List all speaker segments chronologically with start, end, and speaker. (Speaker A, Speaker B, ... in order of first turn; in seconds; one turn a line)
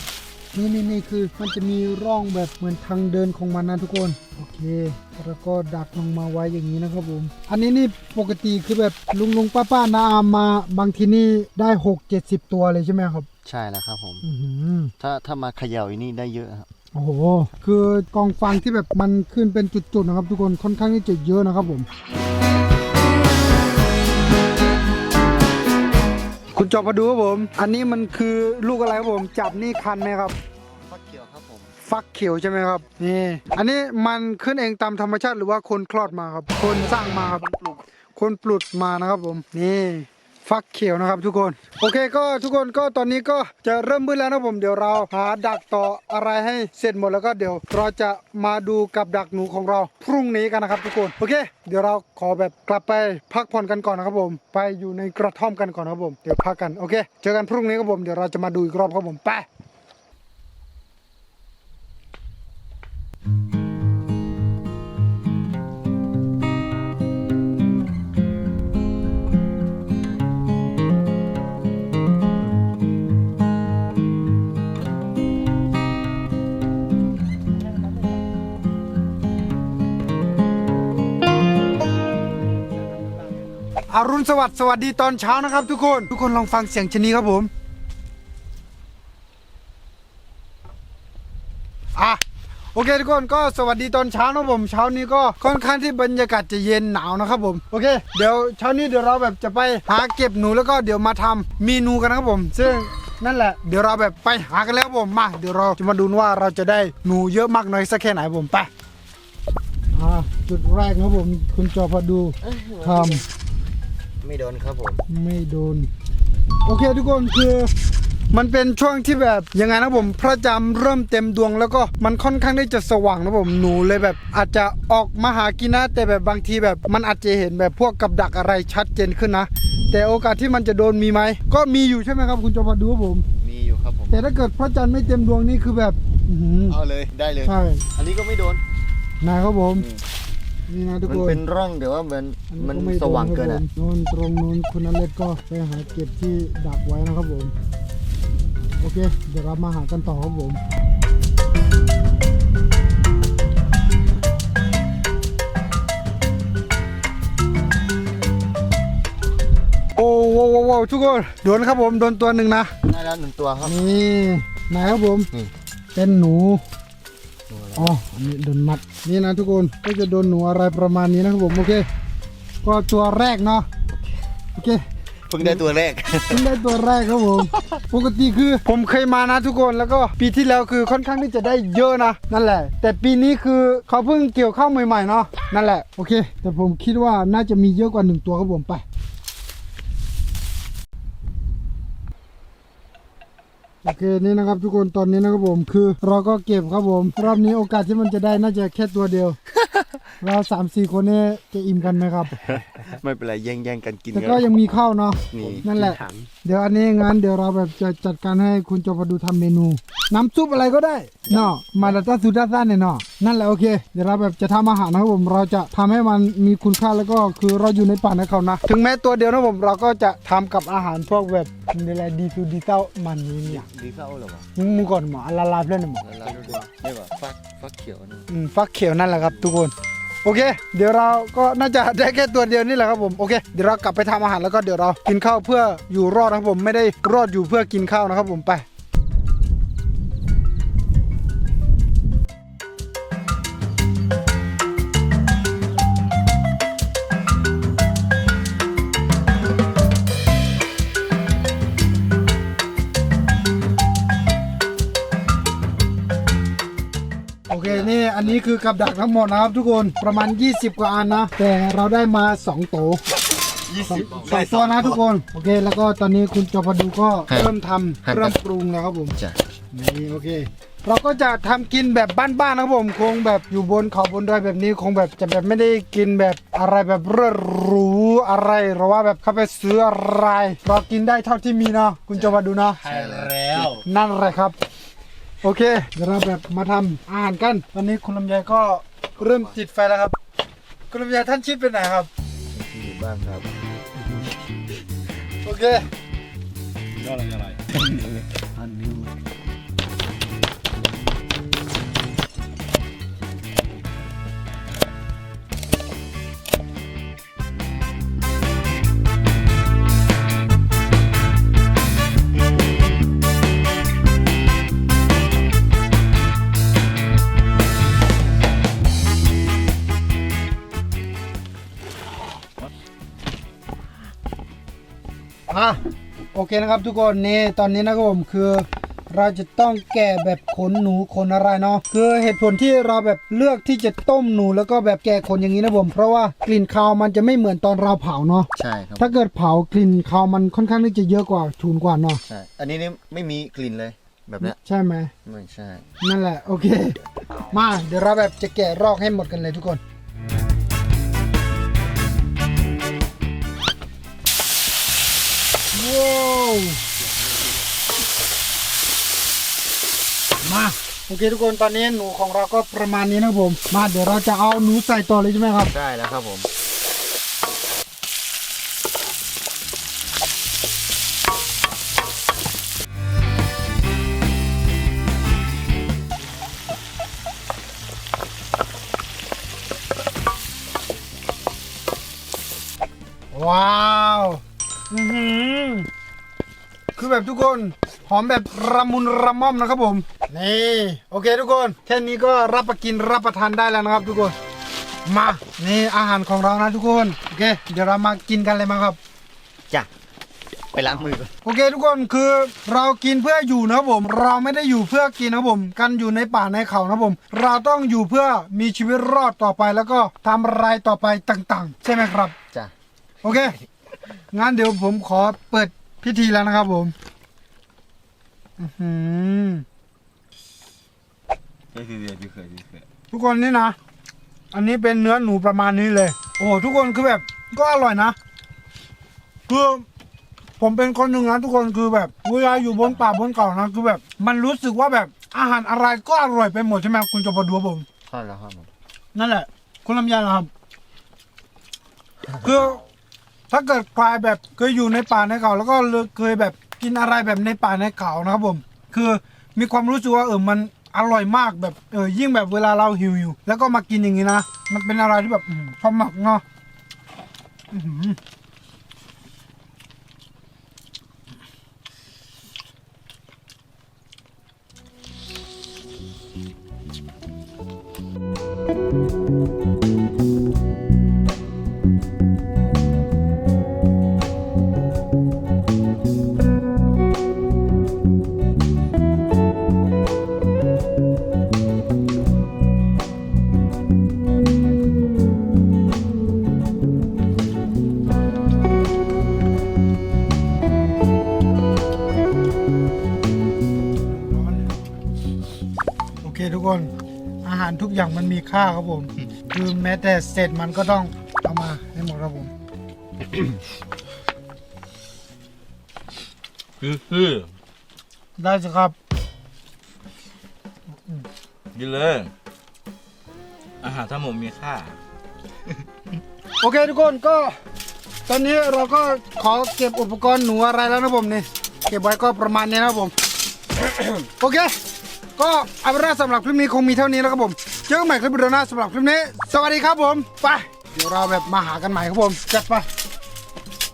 Speaker A: 0.5-13.3
Speaker B: 13.4-14.2
Speaker A: 14.2-14.9
Speaker B: 15.0-16.7
Speaker A: 16.9-21.9
Speaker A: 26.6-30.4
Speaker B: 30.9-31.7
Speaker A: 31.9-37.5
Speaker B: 36.9-37.8
Speaker A: 38.1-59.5
Speaker A: 83.9-87.5
Speaker A: 92.8-108.7
Speaker A: 109.9-113.2
Speaker B: 112.4-113.2
Speaker B: 114.2-115.0
Speaker A: 115.1-115.9
Speaker A: 116.7-117.7
Speaker A: 118.3-133.2
Speaker B: 133.4-134.3
Speaker A: 134.1-136.8
Speaker B: 136.7-138.6
Speaker A: 137.4-137.8
Speaker A: 139.2-139.9
Speaker B: 139.8-140.0
Speaker A: 140.7-141.4
Speaker B: 141.0-143.6
Speaker A: 142.5-147.5
Speaker A: 148.8-150.6
Speaker A: 160.0-162.7
Speaker B: 162.8-163.8
Speaker A: 163.6-165.3
Speaker A: 165.9-166.6
Speaker B: 167.5-168.0
Speaker A: 167.8-171.9
Speaker A: 172.6-173.7
Speaker A: 174.6-174.8
Speaker B: 175.3-176.4
Speaker A: 176.3-188.8
Speaker A: 193.8-199.4
Speaker B: 199.6-199.9
Speaker A: 200.2-202.3
Speaker B: 202.3-204.7
Speaker A: 204.1-223.7
Speaker B: 205.3-206.3
Speaker B: 211.3-212.0
Speaker B: 223.4-224.5
Speaker A: 224.6-226.0
Speaker B: 226.0-228.3
Speaker A: 228.3-229.7
Speaker A: 230.2-238.7
Speaker A: 257.5-263.0
Speaker B: 257.6-258.4
Speaker B: 263.7-264.7
Speaker A: 263.8-269.1
Speaker C: 264.3-264.8
Speaker B: 267.3-268.4
Speaker A: 269.7-282.8
Speaker B: 282.1-283.8
Speaker C: 282.9-283.6
Speaker A: 283.8-284.6
Speaker A: 285.4-290.1
Speaker B: 289.2-289.6
Speaker A: 290.9-292.1
Speaker B: 292.5-293.5
Speaker A: 295.4-295.8
Speaker C: 297.1-297.6
Speaker B: 298.6-299.1
Speaker A: 325.5-325.8
Speaker A: 326.3-342.2
Speaker B: 338.6-339.2
Speaker B: 342.2-344.6
Speaker A: 344.4-345.1
Speaker B: 345.2-345.8
Speaker A: 346.0-347.0
Speaker A: 347.5-349.8
Speaker A: 355.7-356.8
Speaker A: 360.4-365.7
Speaker B: 365.7-366.5
Speaker A: 383.3-385.9
Speaker A: 386.9-394.3
Speaker A: 395.1-399.0
Speaker B: 400.7-401.3
Speaker A: 401.4-412.4
Speaker A: 413.2-413.6
Speaker A: 414.3-416.9
Speaker A: 418.6-419.6
Speaker B: 421.7-422.9
Speaker A: 423.1-423.8
Speaker A: 424.5-428.2
Speaker A: 429.5-429.8
Speaker A: 430.6-437.9
Speaker B: 438.1-438.7
Speaker A: 439.1-440.5
Speaker A: 442.4-442.8
Speaker A: 443.5-456.4
Speaker A: 457.7-458.2
Speaker A: 494.2-494.8
Speaker A: 496.2-496.9
Speaker A: 497.4-502.5
Speaker C: 506.8-507.5
Speaker A: 508.4-508.9
Speaker C: 511.8-512.3
Speaker C: 513.8-515.0
Speaker A: 516.6-517.5
Speaker A: 518.3-523.1
Speaker A: 523.9-524.7
Speaker A: 525.4-532.9